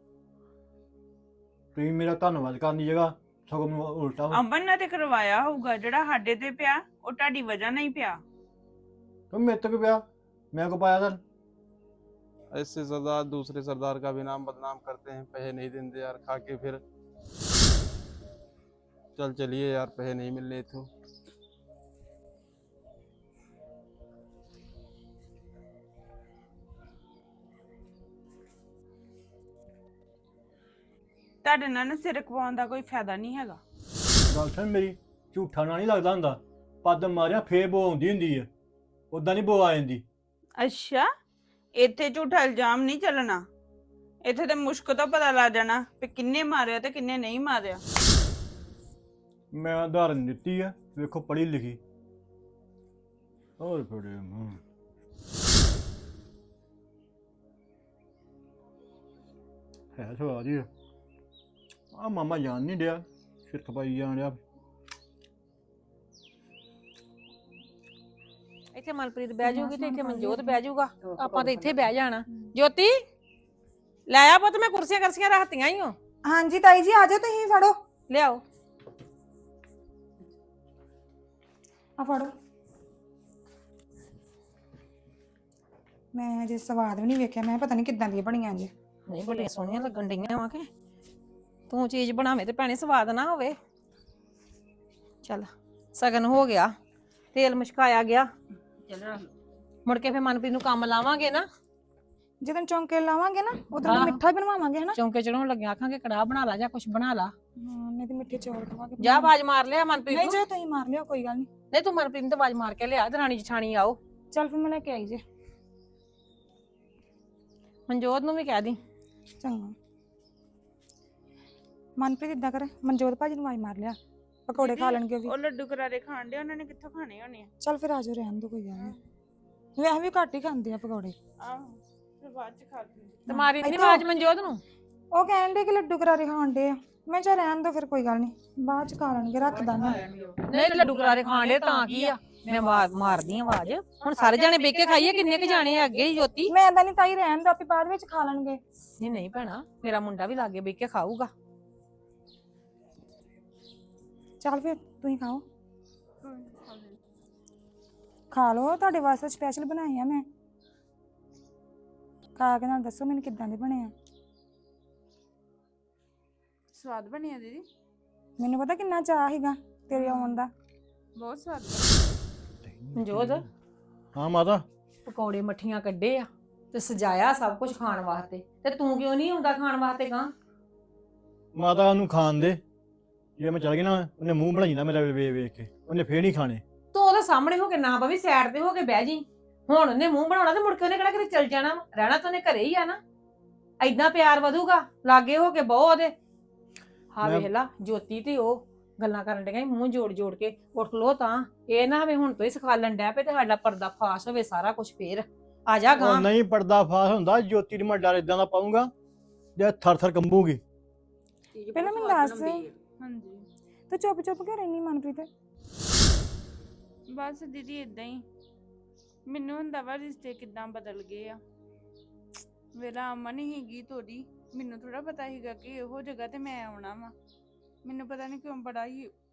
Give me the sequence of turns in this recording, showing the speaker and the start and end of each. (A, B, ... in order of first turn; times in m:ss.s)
0:01.7-0:04.4 A
0:04.3-0:08.2 B
0:09.3-0:11.2 A
0:12.5-0:16.8 C
0:19.2-0:20.9 C
0:31.4-0:33.6 B
0:34.3-0:38.5 A
0:39.1-0:40.0 A
0:40.6-0:41.0 B
0:41.8-0:43.4 B
0:44.2-0:47.8 B
0:49.5-0:51.8 A
0:53.6-0:54.6 A
0:59.9-1:00.7 A
1:01.9-1:04.4 A
1:08.7-1:13.0 D
1:09.4-1:10.6 E
1:11.0-1:11.9 F
1:14.1-1:15.9 D
1:16.2-1:17.7 E
1:18.1-1:18.4 D
1:22.0-1:22.3 E
1:26.1-1:28.7 E
1:29.1-1:30.7 D
1:31.7-1:33.6 D
1:35.2-1:36.7 D
1:37.3-1:38.3 D
1:38.9-1:39.3 F
1:39.8-1:41.4 D
1:42.4-1:45.0 E
1:43.8-1:44.2 D
1:45.0-1:47.3 D
1:47.6-1:49.3 E
1:49.0-1:50.4 D
1:50.1-1:51.5 E
1:51.7-1:54.0 D
1:54.3-1:55.2 E
1:57.9-1:58.8 D
1:59.4-1:59.7 E
2:02.0-2:05.3 E
2:04.6-2:07.5 B
2:07.6-2:08.9 E
2:09.8-2:11.1 E
2:11.4-2:13.4 B
2:13.3-2:14.6 D
2:13.3-2:14.0 E
2:15.1-2:20.0 E
2:19.5-2:20.4 F
2:20.5-2:26.5 D
2:26.5-2:28.6 E
2:29.0-2:31.3 D
2:34.4-2:35.4 E
2:36.2-2:37.0 B
2:38.3-2:40.2 E
2:42.4-2:43.9 E
2:46.7-2:47.6 B
2:48.4-2:50.5 E
2:49.9-2:50.3 B
2:51.2-2:51.9 B
2:52.6-2:53.5 A
2:52.9-2:53.4 D
2:54.1-2:54.6 A
2:55.0-3:00.3 D
3:01.5-3:02.6 A
3:03.4-3:06.6 A
3:06.9-3:13.0 D
3:13.8-3:16.1 D
3:17.1-3:26.3 D
3:17.2-3:17.5 A
3:26.0-3:28.9 A
3:29.6-3:30.6 A
3:31.5-3:32.7 F
3:31.7-3:32.7 E
3:33.0-3:33.4 B
3:33.9-3:35.3 E
3:37.1-3:38.2 B
3:39.3-3:41.4 B
3:42.8-3:47.1 B
3:47.8-3:49.1 B